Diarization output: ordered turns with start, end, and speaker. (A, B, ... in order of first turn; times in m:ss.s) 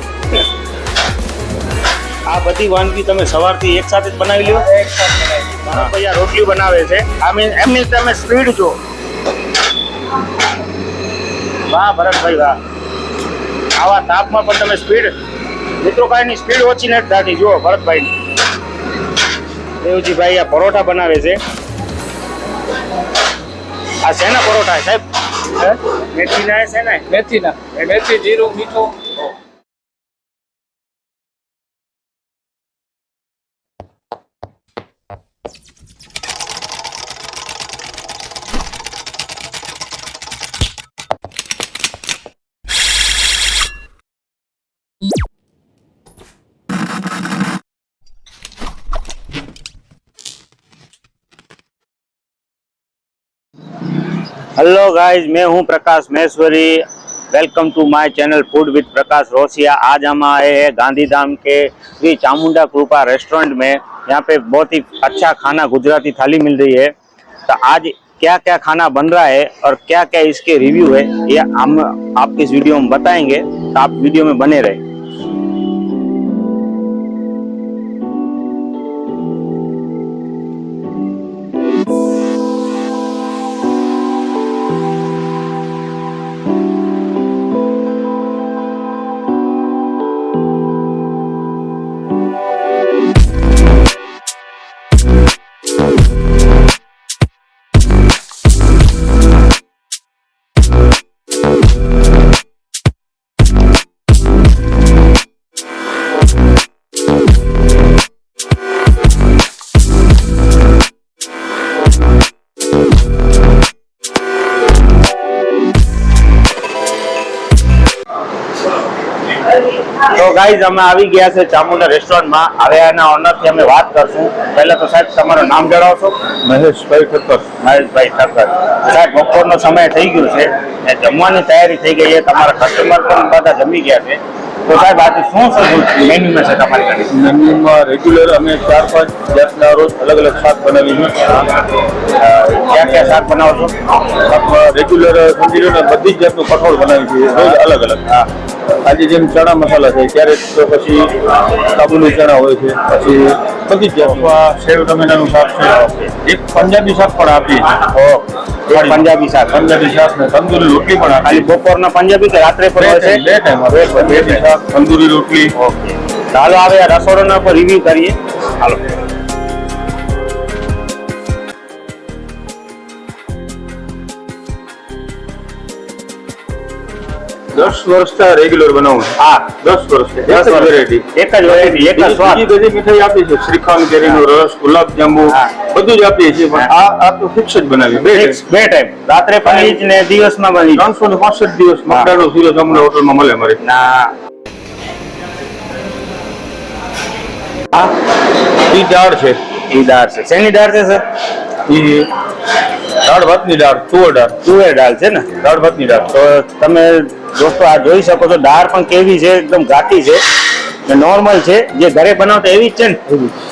0:02.3-0:04.7 A
0:04.6-0:05.7 B
0:05.7-0:08.8 A
0:11.7-0:12.6 A
0:13.8-0:15.1 A
0:15.8-0:18.1 A
0:19.8-0:21.4 A
0:24.0-0:27.1 A
0:27.1-0:29.2 B
0:54.6-1:06.9 A
1:07.4-1:14.8 A
1:59.9-2:06.3 A
2:06.4-2:07.4 C
2:07.6-2:17.1 A
2:17.1-2:21.5 C
2:22.1-2:23.8 A
2:24.1-2:28.0 C
2:28.8-2:37.8 C
2:34.0-2:34.3 A
2:35.7-2:36.1 A
2:37.8-2:39.6 A
2:38.7-2:41.5 C
2:41.2-2:44.5 A
2:42.8-2:45.5 C
2:45.5-2:48.8 A
2:57.5-3:08.4 C
2:59.2-2:59.6 A
3:00.3-3:02.5 A
3:05.3-3:05.5 A
3:08.0-3:10.9 A
3:09.5-3:09.7 C
3:10.7-3:13.6 C
3:11.9-3:12.2 A
3:13.6-3:14.1 A
3:18.6-3:19.4 C
3:19.7-3:21.0 A
3:21.6-3:22.1 C
3:23.0-3:24.4 C
3:24.4-3:25.3 A
3:25.4-3:26.1 C
3:26.0-3:30.2 A
3:30.8-3:33.3 A